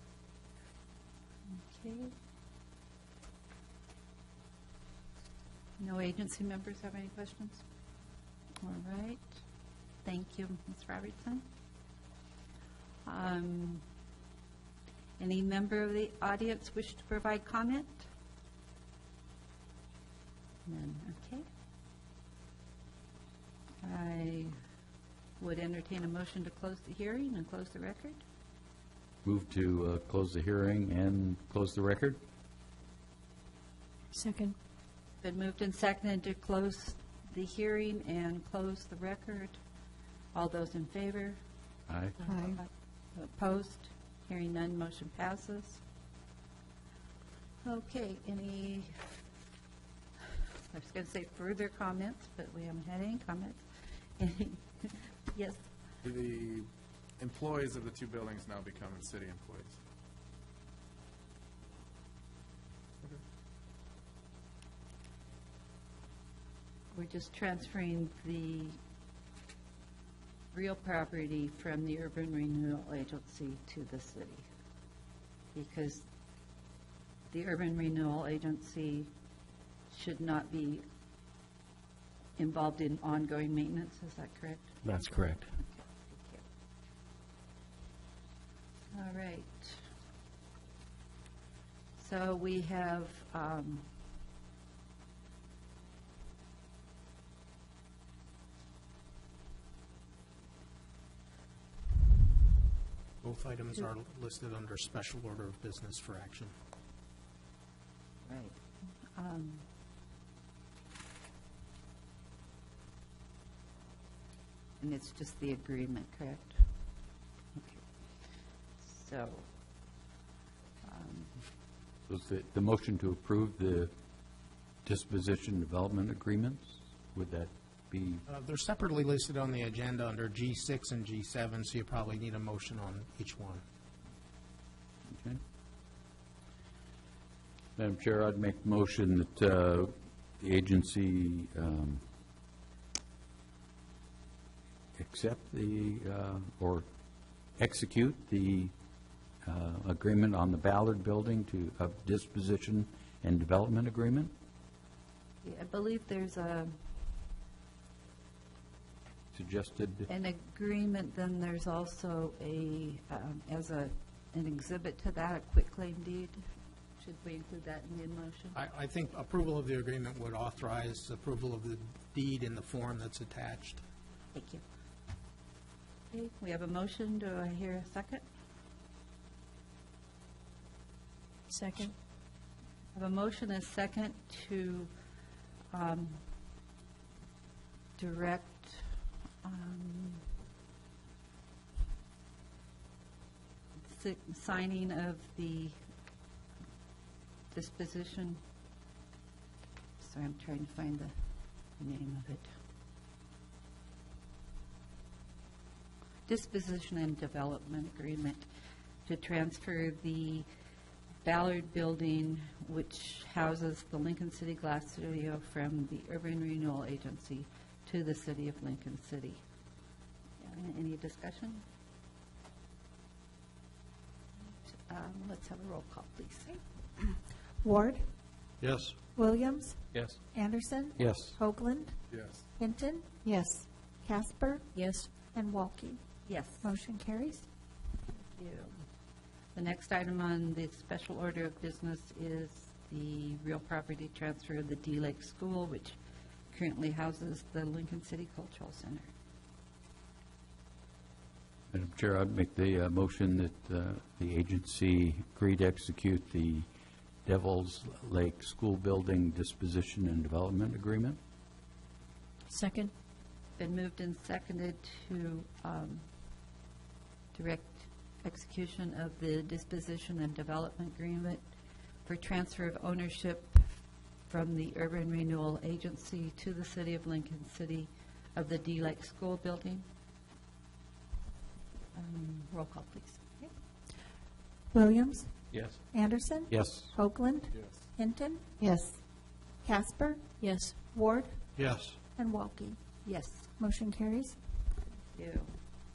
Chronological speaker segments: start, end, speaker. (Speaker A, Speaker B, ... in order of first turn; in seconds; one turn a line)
Speaker A: 1.5-2.1
Speaker A: 5.8-7.6
Speaker A: 8.6-9.4
Speaker A: 10.0-11.4
Speaker A: 13.0-13.8
Speaker A: 15.2-18.1
Speaker A: 20.6-21.4
Speaker A: 23.8-24.6
Speaker A: 25.4-28.2
Speaker B: 29.2-32.2
Speaker C: 34.1-34.5
Speaker A: 35.2-39.6
Speaker A: 40.3-41.4
Speaker B: 41.9-42.1
Speaker A: 42.2-45.8
Speaker D: 42.3-42.6
Speaker A: 47.6-49.0
Speaker A: 50.7-55.6
Speaker E: 56.0-56.7
Speaker E: 57.2-59.8
Speaker A: 66.9-68.8
Speaker A: 70.5-74.5
Speaker A: 75.5-76.1
Speaker A: 77.3-79.1
Speaker A: 79.9-80.8
Speaker A: 82.4-84.8
Speaker B: 84.8-85.4
Speaker A: 85.6-86.4
Speaker A: 88.9-89.8
Speaker A: 92.0-93.9
Speaker F: 103.2-106.5
Speaker A: 108.2-108.6
Speaker A: 109.1-109.6
Speaker A: 114.8-116.7
Speaker A: 117.5-117.8
Speaker A: 118.8-119.5
Speaker A: 120.8-121.3
Speaker B: 122.1-123.9
Speaker B: 124.8-128.2
Speaker F: 128.3-133.6
Speaker B: 135.1-135.4
Speaker B: 137.8-142.0
Speaker B: 144.9-146.9
Speaker B: 147.6-148.7
Speaker B: 149.4-154.3
Speaker A: 155.4-156.7
Speaker B: 159.3-160.1
Speaker A: 160.1-166.5
Speaker A: 167.0-168.6
Speaker F: 168.5-173.8
Speaker A: 174.3-174.6
Speaker A: 176.1-178.2
Speaker C: 181.5-181.9
Speaker A: 182.9-184.9
Speaker A: 185.7-186.2
Speaker A: 188.0-190.2
Speaker A: 193.8-195.8
Speaker A: 197.5-198.4
Speaker A: 200.0-201.1
Speaker A: 201.8-202.5
Speaker A: 206.2-208.5
Speaker A: 209.0-210.5
Speaker A: 211.2-219.4
Speaker A: 220.4-221.6
Speaker A: 224.7-226.6
Speaker D: 227.6-228.0
Speaker F: 228.6-228.9
Speaker D: 229.2-232.0
Speaker B: 230.9-231.4
Speaker E: 232.1-232.4
Speaker D: 232.6-234.7
Speaker C: 234.7-235.1
Speaker D: 235.3-236.0
Speaker A: 236.2-236.7
Speaker D: 236.6-237.5
Speaker A: 238.3-238.8
Speaker A: 239.5-246.0
Speaker A: 246.5-249.1
Speaker B: 251.7-256.7
Speaker B: 257.2-261.2
Speaker C: 262.5-262.9
Speaker A: 263.6-266.0
Speaker A: 267.3-271.4
Speaker A: 272.0-273.7
Speaker A: 274.3-279.8
Speaker A: 281.9-283.3
Speaker D: 284.7-289.0
Speaker B: 285.5-285.8
Speaker B: 286.5-286.9
Speaker D: 289.6-290.4
Speaker C: 290.4-290.8
Speaker D: 290.9-291.4
Speaker F: 291.6-292.0
Speaker D: 292.1-292.8
Speaker A: 293.0-293.4
Speaker D: 293.6-294.4
Speaker A: 295.1-295.5